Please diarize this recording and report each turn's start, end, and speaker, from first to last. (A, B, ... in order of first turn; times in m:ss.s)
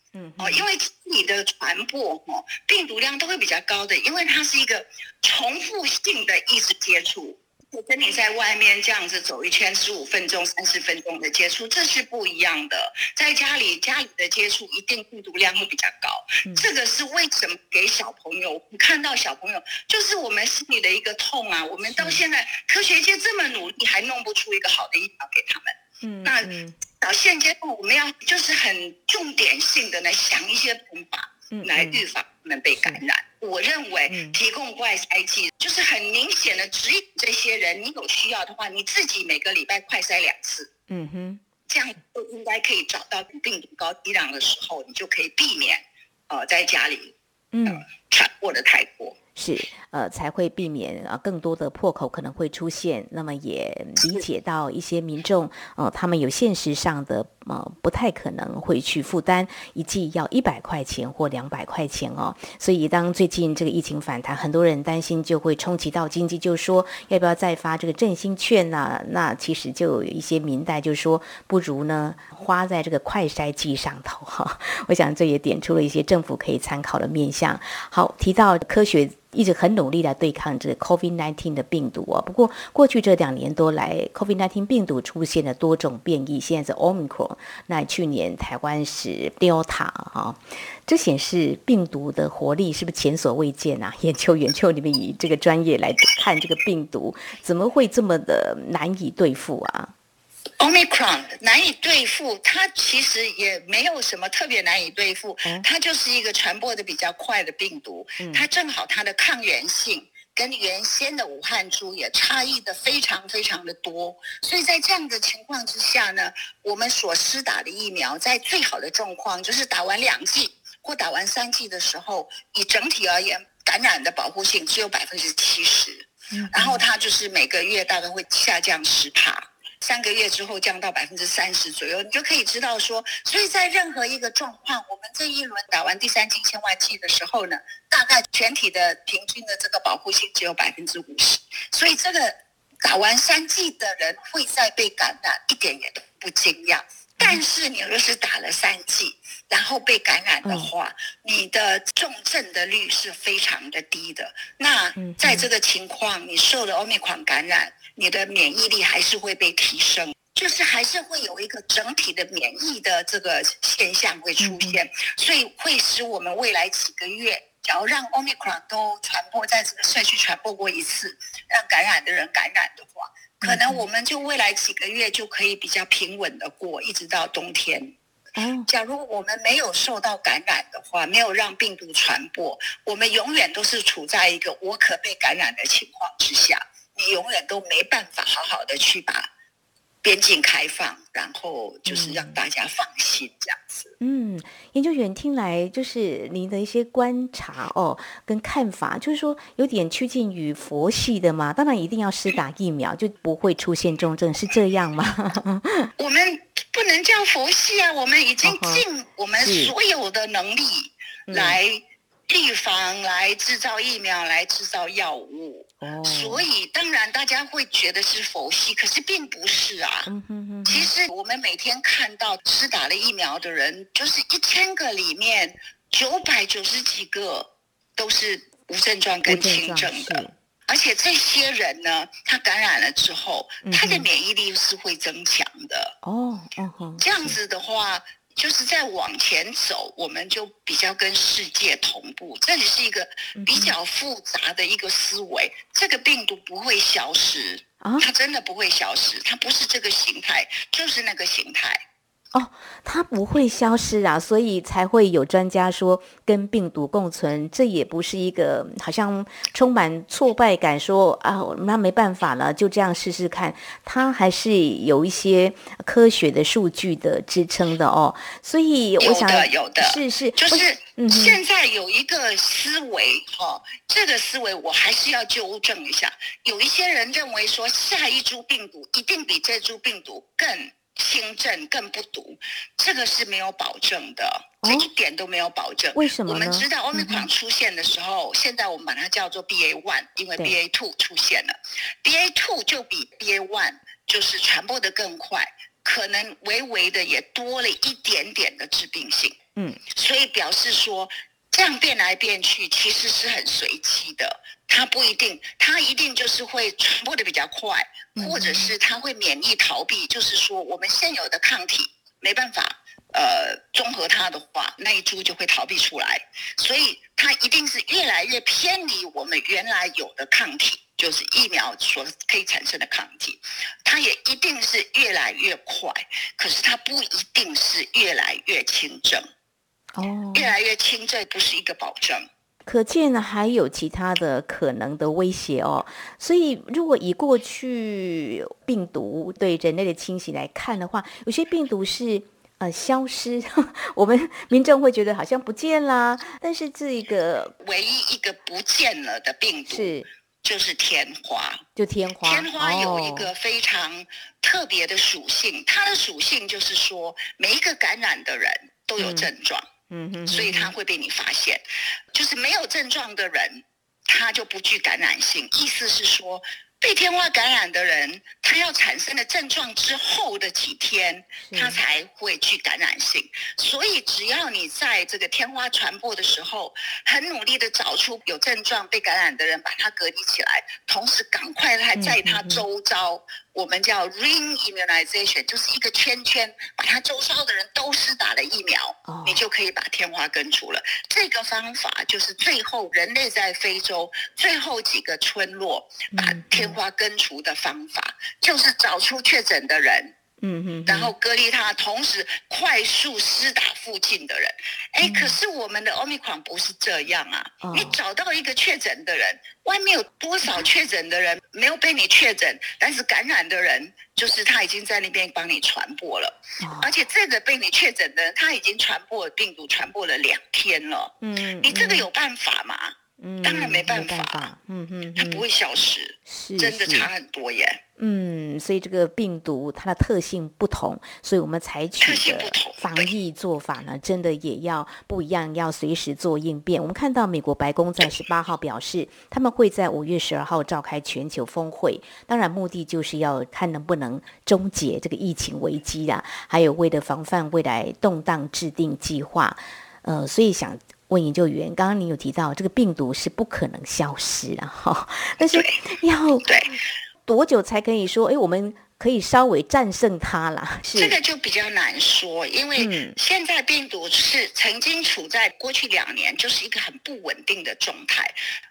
0:00.1-0:00.7 A
0:00.4-0:40.7 B
0:21.9-0:22.2 A
0:26.0-0:26.8 A
0:31.5-0:32.0 A
0:34.1-0:34.4 A
0:40.9-0:41.4 A
0:41.7-0:47.2 B
0:47.5-0:47.8 A
0:47.7-0:49.2 B
0:49.4-1:39.9 A
1:40.6-2:58.0 B
1:48.2-1:48.5 A
2:06.3-2:06.8 A
2:30.4-2:30.7 A
2:35.0-2:35.5 A
2:44.4-2:44.8 A
2:53.4-2:53.8 A
2:58.4-2:58.7 A
2:58.7-3:09.3 B
3:10.0-3:13.9 B
3:11.9-3:12.4 A
3:14.0-3:25.9 A
3:26.0-3:40.1 B
3:28.4-3:28.8 A
3:29.4-3:29.7 A
3:31.3-3:31.6 A
3:35.8-3:36.4 A
3:40.1-3:40.9 A
3:40.7-3:55.9 B
3:49.3-3:50.3 A
3:53.6-3:54.1 A
3:56.0-3:57.4 A
3:57.0-4:11.8 B
4:03.4-4:03.8 A
4:07.8-4:08.1 A
4:12.3-4:31.4 A
4:29.0-4:59.4 B
4:44.6-4:44.9 A
4:45.9-4:47.3 A
4:59.6-4:59.8 A
4:59.9-5:29.3 B
5:08.2-5:08.7 A
5:29.9-5:30.5 A
5:30.3-5:32.3 B
5:32.7-5:47.6 A
5:47.6-5:51.6 B
5:49.7-5:50.1 A
5:51.8-5:53.3 A
5:52.2-5:59.7 B
5:59.0-5:59.3 A
5:59.9-6:00.7 A
6:00.3-6:40.2 B
6:11.4-6:11.8 A
6:22.0-6:22.7 A
6:29.1-6:29.4 A
6:36.1-6:36.8 A
6:40.4-6:41.1 A
6:40.9-7:04.5 B
6:45.0-6:45.4 A
6:47.6-6:48.0 A
6:56.6-6:56.9 A
7:01.2-7:02.1 A
7:03.2-7:05.4 A
7:05.2-7:07.8 B
7:06.3-7:07.1 A
7:08.0-7:36.5 A
7:12.0-7:13.1 B
7:35.4-7:35.8 B
7:36.4-7:36.8 B
7:37.3-7:41.2 A
7:41.0-7:48.3 B
7:42.8-7:43.2 A